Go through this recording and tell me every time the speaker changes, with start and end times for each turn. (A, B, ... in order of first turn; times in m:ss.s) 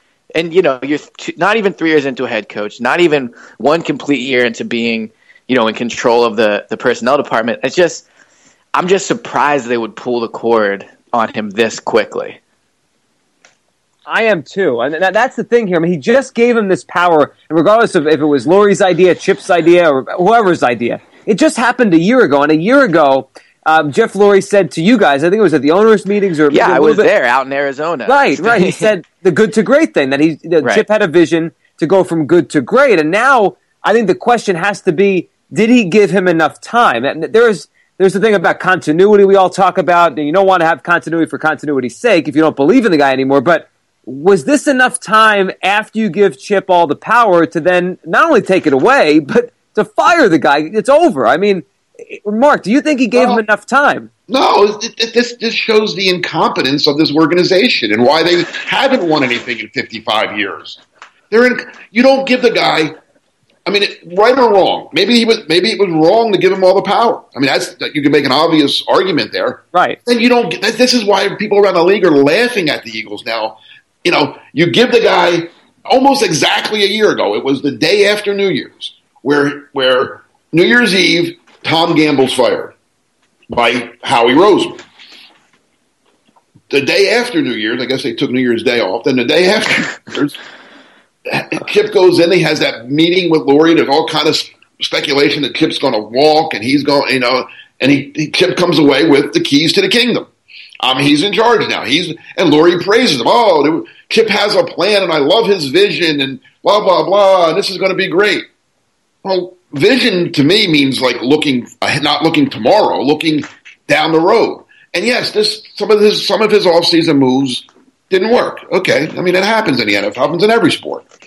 0:00.3-0:08.0 A
0:08.7-0:12.4 A
0:14.0-0:27.1 B
0:26.5-0:28.9 A
0:28.1-0:54.1 B
0:53.1-0:53.4 C
0:54.3-1:03.0 C
1:03.6-1:22.7 C
1:09.7-1:10.0 B
1:23.5-1:24.8 C
1:26.7-1:30.4 C
1:31.2-1:40.3 C
1:40.8-1:48.4 C
1:49.2-2:01.0 C